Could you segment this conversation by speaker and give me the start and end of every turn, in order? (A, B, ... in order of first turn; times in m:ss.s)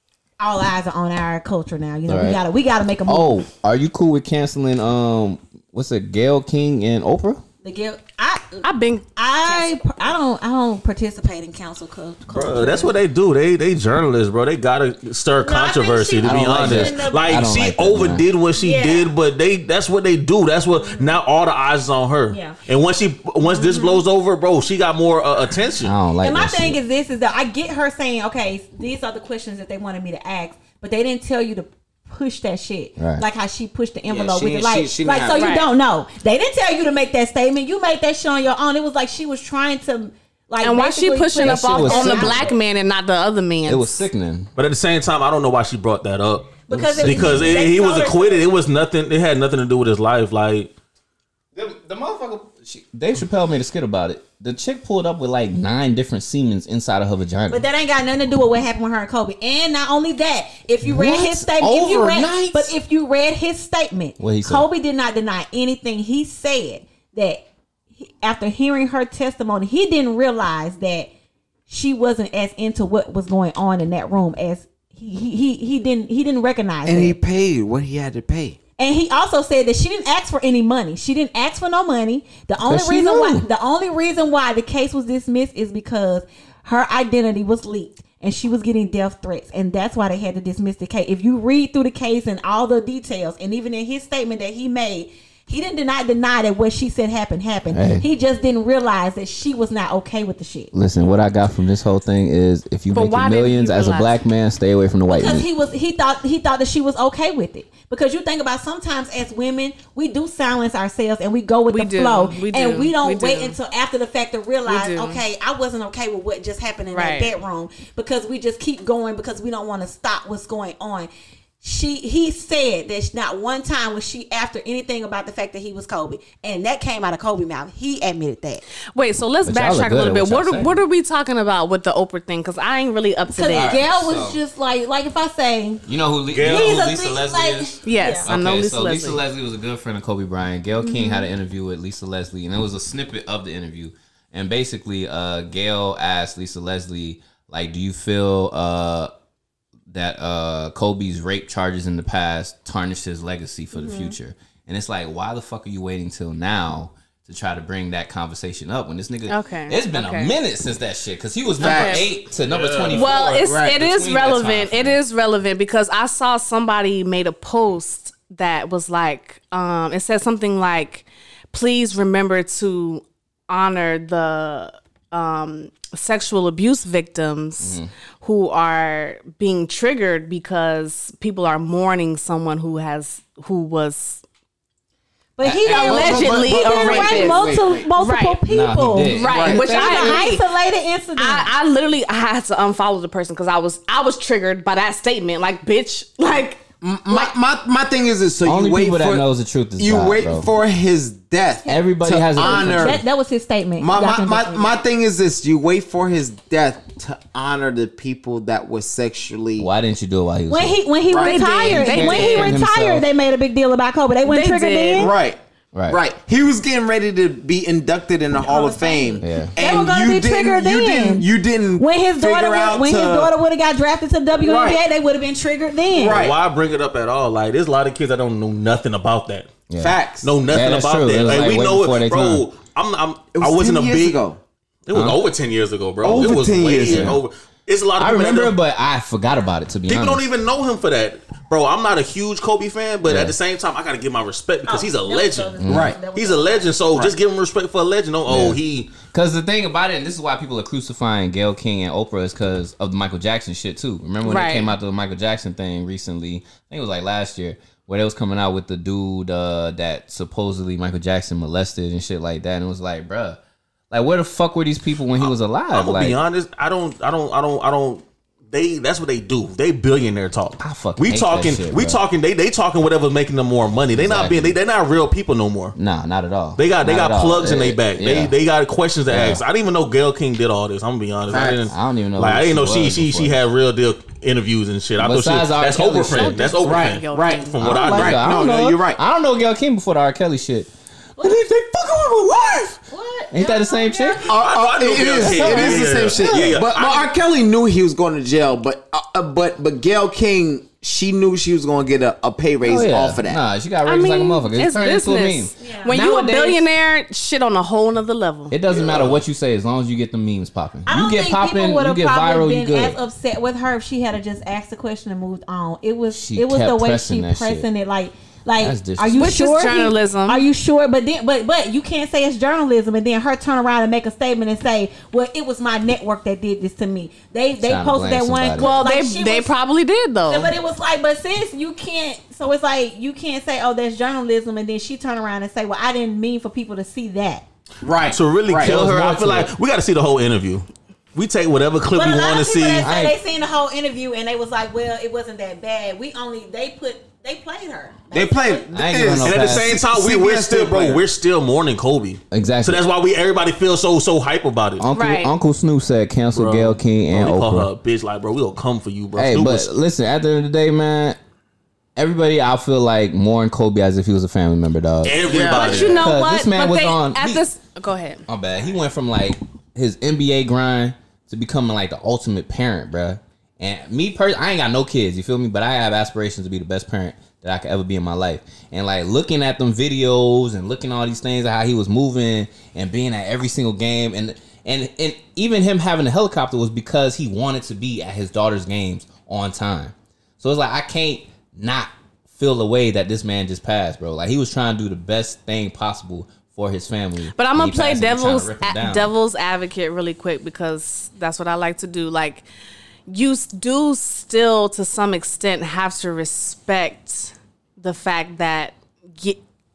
0:00.4-0:03.4 A
0:02.1-0:02.4 B
0:03.0-0:07.4 B
0:07.6-0:08.6 A
0:08.6-0:09.7 C
0:09.2-0:13.0 A
0:12.3-0:25.9 D
0:15.4-0:17.5 A
0:16.2-0:18.2 B
0:18.5-0:19.1 A
0:20.8-0:21.1 A
0:22.3-0:22.6 A
0:23.4-0:24.0 A
0:25.8-0:26.8 B
0:26.2-0:42.6 A
0:33.0-0:33.3 B
0:34.1-0:35.6 E
0:35.3-0:35.7 C
0:40.6-0:44.0 C
0:41.4-0:42.5 B
0:43.6-0:44.5 B
0:44.6-0:50.7 D
0:46.7-0:48.5 A
0:46.7-0:47.6 B
0:51.5-0:57.6 B
0:57.5-1:07.4 A
1:00.8-1:02.7 B
1:04.2-1:04.6 B
1:08.0-1:11.1 A
1:11.7-1:17.2 A
1:16.8-1:18.6 E
1:18.8-1:40.7 A
1:22.6-1:23.4 B
1:37.7-1:38.1 B
1:40.7-1:45.5 B
1:42.9-1:44.2 C
1:45.1-2:01.1 A
1:51.7-1:53.6 C
1:54.6-1:55.2 C
1:56.9-1:57.3 C
2:01.6-2:08.6 A
2:08.9-2:13.8 C
2:09.4-2:10.8 B
2:13.3-2:15.8 A
2:13.5-2:14.4 B
2:15.8-2:29.1 B
2:16.3-2:16.8 D
2:16.4-2:18.3 A
2:17.8-2:19.2 C
2:20.8-2:21.3 A
2:29.9-2:45.0 B
2:39.3-2:40.3 C
2:41.6-2:42.1 E
2:41.6-2:42.1 C
2:42.5-2:43.1 D
2:42.9-3:04.2 C
2:43.4-2:43.7 E
2:57.6-2:57.9 B
3:05.4-3:11.5 A
3:05.4-3:06.4 B
3:05.7-3:07.4 C
3:05.8-3:07.9 E
3:08.0-3:08.4 C
3:08.5-3:10.3 B
3:09.0-3:10.4 C
3:09.3-3:09.6 E
3:11.2-3:17.3 C
3:16.8-3:19.2 E
3:18.4-3:20.5 B
3:19.8-3:23.0 E
3:21.7-3:23.0 B
3:22.4-3:24.8 A
3:23.8-3:29.7 E
3:29.6-3:30.8 B
3:30.5-3:35.1 A
3:31.1-3:31.4 E
3:31.1-3:32.6 C
3:31.5-3:33.1 B
3:34.2-3:35.1 C
3:35.0-3:43.3 E
3:35.7-3:36.0 B
3:38.3-3:46.2 A
3:39.2-3:39.6 B
3:44.4-3:44.8 E
3:45.9-3:46.4 E
3:46.0-3:49.6 D
3:49.7-3:52.4 B
3:49.8-3:50.3 E
3:50.2-3:54.2 D
3:53.3-3:54.4 E
3:54.8-3:58.5 D
3:54.9-3:55.2 B
3:56.0-3:57.2 E
3:56.3-3:57.2 B
3:58.0-4:00.2 B
3:59.9-4:08.9 D
4:03.0-4:03.3 B
4:04.7-4:06.9 A
4:05.6-4:05.9 B
4:05.6-4:06.0 E
4:08.3-4:23.4 B
4:14.2-4:14.7 C
4:23.9-4:26.2 B
4:25.2-4:35.8 D
4:30.6-4:32.0 B
4:33.9-4:34.6 B
4:35.8-4:38.3 B
4:36.6-4:48.3 D
4:39.1-4:39.4 B
4:41.3-4:41.6 E
4:41.6-4:43.4 B
4:45.0-4:46.6 B
4:46.0-4:47.6 C
4:46.6-4:49.0 E
4:47.6-4:54.3 B
4:52.9-4:54.3 A
4:54.3-5:03.4 E
4:54.3-4:57.1 D
4:55.2-4:56.6 B
5:02.6-5:06.6 B
5:03.8-5:08.6 C
5:05.6-5:05.9 A
5:08.5-5:13.0 B
5:08.7-5:09.2 E
5:10.8-5:29.5 A
5:16.1-5:17.7 B
5:18.6-5:19.3 B
5:19.1-5:20.4 C
5:27.6-5:28.8 B
5:28.6-5:30.5 C
5:30.3-5:37.4 A
5:37.8-5:38.8 E
5:38.0-5:42.9 D
5:38.6-5:39.5 B
5:41.9-5:48.6 A
5:42.8-5:43.2 B
5:48.1-5:51.0 E
5:48.7-5:49.8 B
5:49.2-5:54.8 D
5:52.3-5:52.8 B
5:54.8-5:57.7 B
5:55.0-5:55.3 C
5:56.3-5:59.7 D
5:59.2-6:01.2 B
6:02.0-6:07.5 B
6:05.0-6:06.1 D
6:05.2-6:06.0 E
6:05.5-6:08.2 C
6:08.3-6:39.1 B
6:37.3-6:42.4 C
6:43.1-6:49.4 C